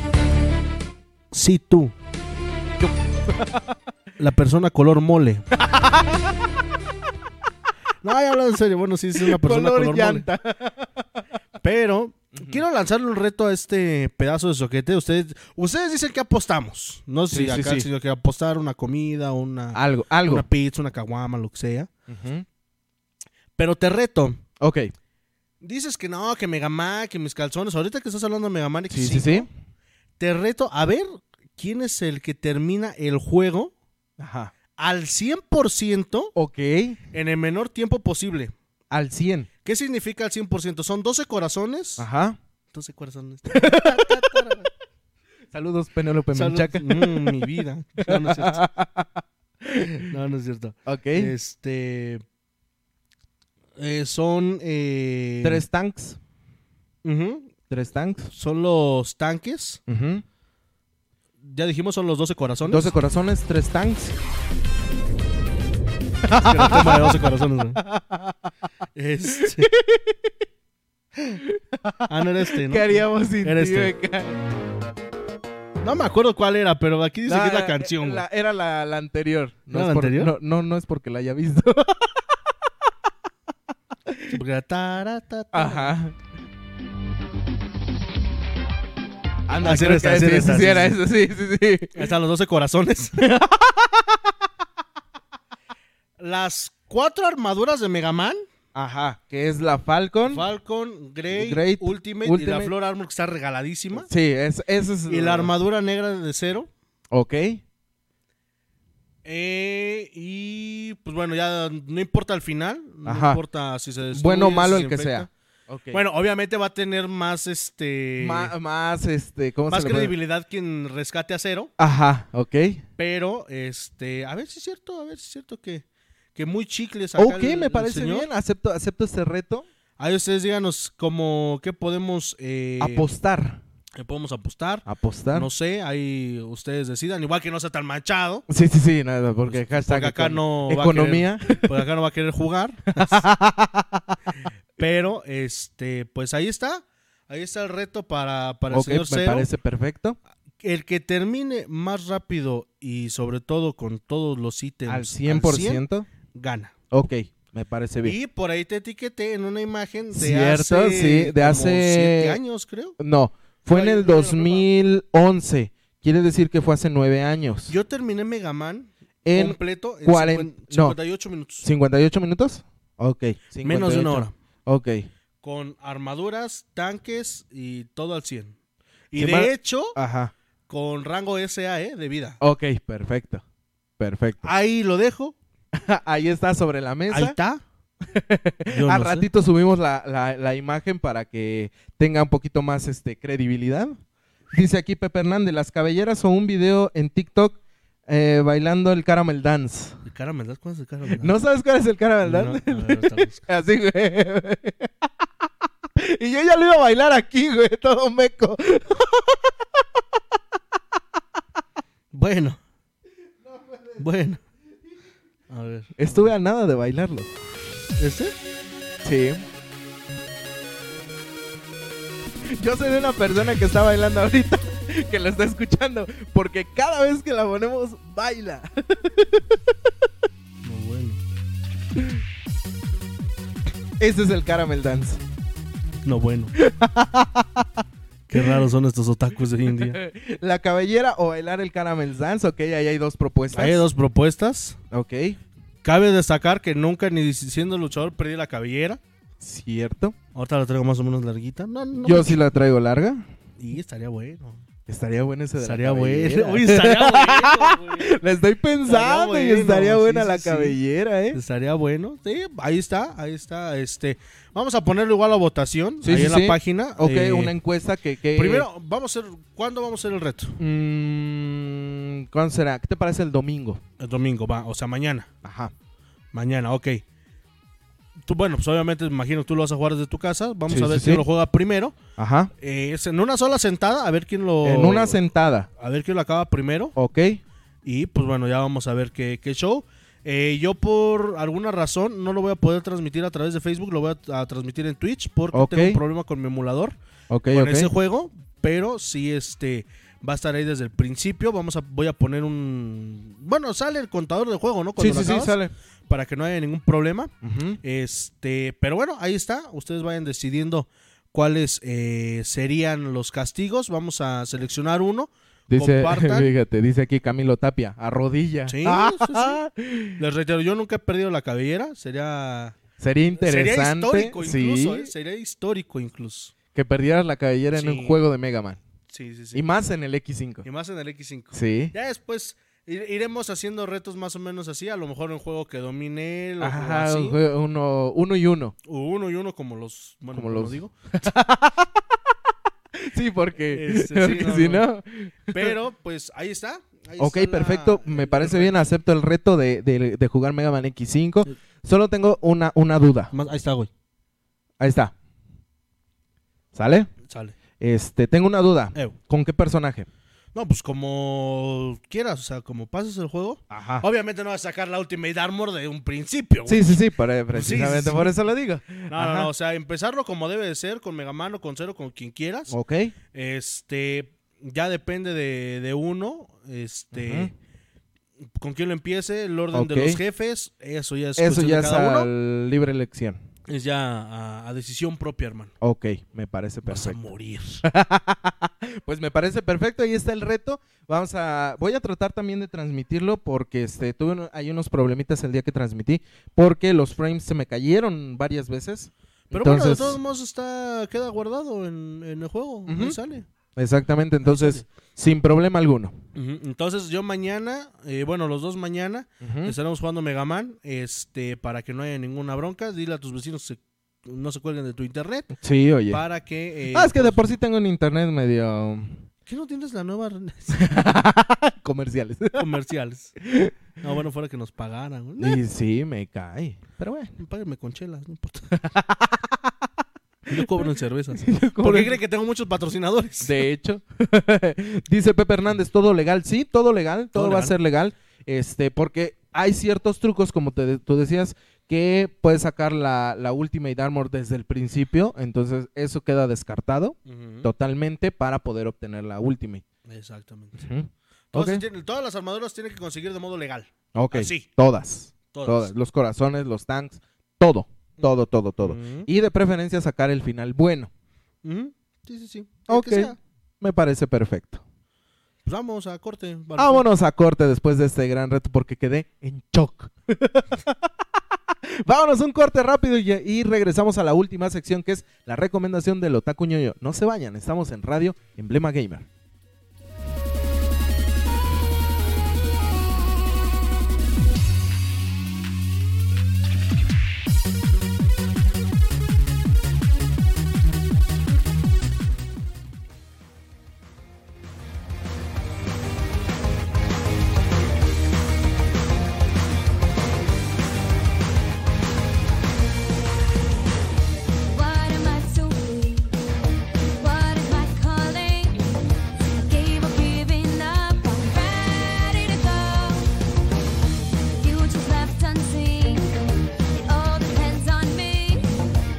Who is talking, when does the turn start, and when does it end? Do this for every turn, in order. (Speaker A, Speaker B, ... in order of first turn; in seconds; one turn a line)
Speaker A: 1.3-1.9
Speaker B: 2.8-3.6
Speaker A: 4.2-5.5
Speaker B: 5.6-6.3
Speaker A: 8.0-10.3
Speaker B: 9.2-11.0
Speaker A: 11.6-21.9
Speaker B: 12.3-12.6
Speaker B: 17.3-17.9
Speaker B: 19.8-20.5
Speaker B: 22.1-22.4
Speaker A: 23.6-24.4
Speaker B: 24.6-24.9
Speaker A: 25.6-29.5
Speaker B: 28.9-29.5
Speaker A: 30.2-33.7
Speaker B: 34.2-34.5
Speaker A: 34.8-36.3
Speaker B: 36.4-37.0
Speaker A: 37.1-38.5
Speaker B: 38.9-39.5
Speaker A: 39.6-42.1
Speaker B: 42.0-42.4
Speaker A: 42.7-44.7
Speaker B: 43.5-44.3
Speaker B: 45.5-47.4
Speaker A: 46.3-48.6
Speaker B: 48.0-50.1
Speaker A: 49.9-52.2
Speaker B: 50.9-51.3
Speaker A: 53.8-55.6
Speaker B: 55.4-56.2
Speaker A: 57.0-57.5
Speaker B: 57.7-58.3
Speaker A: 58.3-59.8
Speaker B: 59.9-60.2
Speaker A: 61.4-62.9
Speaker B: 62.7-64.2
Speaker B: 66.2-67.2
Speaker A: 66.4-67.8
Speaker B: 67.8-68.5
Speaker A: 69.0-69.7
Speaker B: 69.3-70.3
Speaker B: 71.5-74.4
Speaker A: 72.1-73.9
Speaker A: 75.8-78.2
Speaker B: 77.3-82.2
Speaker A: 79.7-80.3
Speaker B: 84.1-84.3
Speaker A: 84.3-85.9
Speaker B: 85.5-86.2
Speaker B: 89.5-92.0
Speaker A: 89.6-91.0
Speaker A: 92.0-93.2
Speaker B: 93.2-94.2
Speaker A: 96.2-98.4
Speaker B: 98.7-100.5
Speaker A: 100.3-104.1
Speaker B: 101.3-102.7
Speaker B: 104.0-105.5
Speaker A: 105.1-106.7
Speaker B: 107.1-107.6
Speaker A: 109.2-115.3
Speaker B: 113.0-113.4
Speaker B: 114.1-116.0
Speaker A: 115.9-118.5
Speaker B: 118.2-120.1
Speaker A: 119.7-121.7
Speaker B: 121.8-122.8
Speaker A: 123.0-128.3
Speaker B: 127.2-129.7
Speaker A: 130.0-133.1
Speaker B: 132.8-133.6
Speaker A: 133.9-138.5
Speaker B: 134.9-135.5
Speaker B: 138.5-141.8
Speaker A: 139.5-143.3
Speaker B: 142.9-144.2
Speaker A: 144.8-149.5
Speaker B: 148.7-150.2
Speaker A: 150.6-156.8
Speaker B: 154.9-156.1
Speaker B: 156.9-158.2
Speaker A: 158.0-163.0
Speaker B: 160.1-162.4
Speaker B: 163.0-167.8
Speaker A: 163.7-164.7
Speaker A: 167.7-171.7
Speaker B: 169.2-171.0
Speaker B: 171.6-175.1
Speaker A: 173.6-174.3
Speaker A: 175.4-178.6
Speaker A: 179.1-180.0
Speaker B: 179.2-180.3
Speaker A: 180.7-182.4
Speaker B: 182.4-183.4
Speaker B: 184.0-184.4
Speaker A: 184.4-185.4
Speaker B: 185.7-187.4
Speaker A: 187.1-187.6
Speaker B: 188.1-194.0
Speaker A: 188.7-189.3
Speaker B: 194.5-200.0
Speaker A: 200.1-201.4
Speaker B: 201.2-205.1
Speaker A: 202.2-203.4
Speaker B: 206.0-209.8
Speaker A: 212.1-212.6
Speaker A: 214.0-214.4
Speaker A: 215.5-216.3
Speaker B: 216.0-217.3
Speaker A: 218.0-218.3
Speaker B: 219.0-219.4
Speaker B: 222.5-229.4
Speaker A: 230.6-231.2
Speaker B: 234.0-235.2
Speaker A: 236.1-236.5
Speaker B: 236.6-237.8
Speaker A: 238.3-240.0
Speaker B: 239.8-243.9
Speaker A: 243.5-244.8
Speaker B: 244.9-245.4
Speaker A: 245.8-249.0
Speaker B: 249.4-250.2
Speaker A: 250.3-252.4
Speaker B: 252.0-253.3
Speaker A: 253.6-254.6
Speaker B: 254.9-261.4
Speaker A: 255.6-258.2
Speaker A: 258.9-260.8
Speaker A: 261.3-267.6
Speaker B: 266.0-268.7
Speaker A: 268.3-270.6
Speaker B: 270.6-273.8
Speaker A: 274.0-275.3
Speaker B: 275.4-275.7
Speaker A: 276.3-277.0
Speaker A: 278.2-282.0
Speaker B: 280.7-281.3
Speaker B: 282.2-282.5
Speaker A: 282.6-285.2
Speaker B: 284.6-285.7
Speaker A: 285.8-286.9
Speaker B: 287.0-287.4
Speaker A: 287.8-297.0
Speaker B: 295.5-296.0
Speaker B: 297.3-297.9
Speaker A: 297.5-316.5
Speaker B: 305.0-305.7
Speaker B: 307.4-307.8
Speaker B: 315.7-320.2
Speaker A: 318.7-319.6
Speaker A: 320.2-322.8
Speaker B: 323.0-325.1
Speaker A: 323.4-326.5
Speaker B: 326.7-328.8
Speaker A: 327.7-328.2
Speaker A: 329.1-329.6
Speaker B: 329.5-330.7
Speaker A: 330.6-337.4
Speaker B: 331.5-331.9
Speaker B: 336.6-338.8
Speaker A: 338.9-340.9
Speaker B: 340.3-342.1
Speaker B: 343.0-345.7
Speaker A: 343.7-344.9
Speaker A: 345.5-348.9
Speaker B: 347.2-353.3
Speaker A: 353.3-353.9
Speaker B: 354.8-355.1
Speaker B: 356.7-357.1
Speaker A: 357.2-357.6
Speaker B: 357.8-360.1
Speaker A: 360.5-367.0
Speaker B: 363.7-364.1
Speaker B: 366.7-369.5
Speaker A: 367.5-368.3
Speaker A: 369.1-372.7
Speaker B: 372.7-373.1
Speaker A: 373.3-377.5
Speaker B: 377.1-377.5
Speaker A: 378.6-382.3
Speaker B: 379.7-380.2
Speaker B: 381.4-383.4
Speaker A: 383.7-385.7
Speaker B: 385.8-387.3
Speaker A: 386.9-387.8
Speaker B: 387.8-400.2
Speaker A: 399.5-403.5
Speaker B: 402.9-403.2
Speaker B: 403.8-406.1
Speaker A: 404.4-404.9
Speaker A: 406.4-415.5
Speaker B: 409.4-409.8
Speaker B: 415.6-416.2
Speaker A: 416.1-417.4
Speaker B: 416.9-419.2
Speaker A: 419.5-420.8
Speaker B: 420.8-422.7
Speaker A: 422.6-423.4
Speaker B: 423.4-423.8
Speaker A: 424.0-425.6
Speaker B: 425.4-427.3
Speaker A: 427.4-428.7
Speaker B: 428.8-429.7
Speaker A: 430.5-433.6
Speaker B: 430.5-432.2
Speaker B: 433.4-449.8
Speaker A: 437.3-437.8
Speaker A: 447.3-447.7
Speaker A: 450.1-450.9
Speaker B: 450.8-451.8
Speaker A: 451.5-454.7
Speaker B: 454.1-461.1
Speaker A: 455.5-455.9
Speaker A: 458.2-459.3
Speaker A: 461.6-463.4
Speaker B: 462.9-464.8
Speaker A: 465.6-467.1
Speaker B: 466.8-471.0
Speaker B: 472.0-479.3
Speaker C: 504.7-506.4
Speaker C: 507.2-508.8
Speaker C: 509.7-513.3
Speaker C: 514.6-516.3
Speaker C: 516.9-518.7